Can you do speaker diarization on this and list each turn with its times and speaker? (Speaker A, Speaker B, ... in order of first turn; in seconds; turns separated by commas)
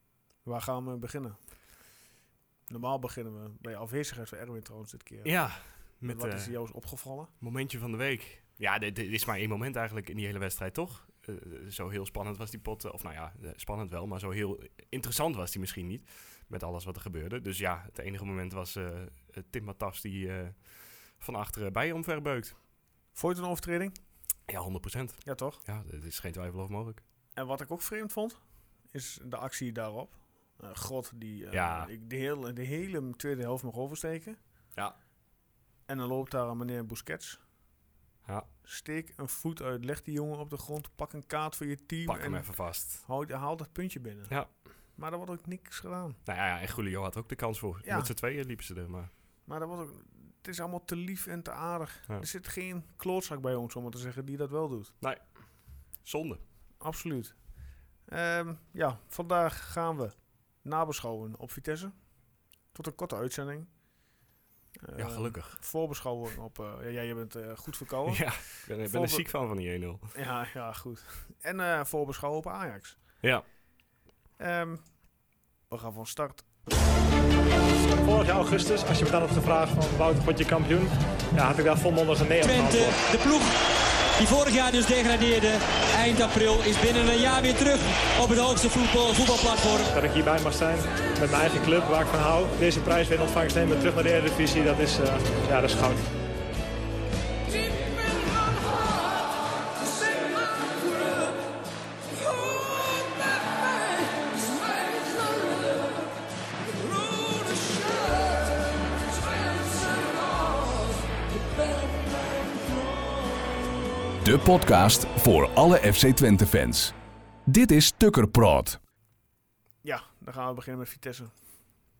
Speaker A: 0.5-1.4, Speaker A: 2.7-5.3, Speaker B: 5.2-6.5, Speaker A: 6.0-7.3, Speaker B: 7.4-22.6, Speaker A: 23.1-24.0, Speaker B: 24.5-27.0, Speaker A: 25.2-25.6, Speaker A: 27.4-28.4, Speaker A: 28.9-34.4, Speaker B: 31.5-31.9, Speaker A: 35.9-37.4, Speaker A: 38.6-44.3, Speaker B: 42.1-43.0, Speaker A: 45.0-46.2, Speaker B: 46.2-49.1, Speaker A: 47.8-48.1, Speaker A: 49.5-54.9, Speaker B: 55.0-55.3, Speaker B: 56.0-56.4, Speaker A: 56.8-57.4, Speaker A: 58.1-61.9, Speaker A: 62.7-63.7, Speaker A: 64.8-69.3, Speaker B: 65.0-65.6, Speaker B: 68.1-70.1, Speaker A: 70.1-73.0, Speaker A: 74.4-74.8, Speaker A: 75.7-76.5, Speaker C: 78.0-83.0, Speaker D: 82.4-83.5, Speaker D: 84.2-89.9, Speaker C: 89.9-96.1, Speaker E: 114.2-117.0, Speaker E: 117.5-118.8, Speaker A: 119.8-121.3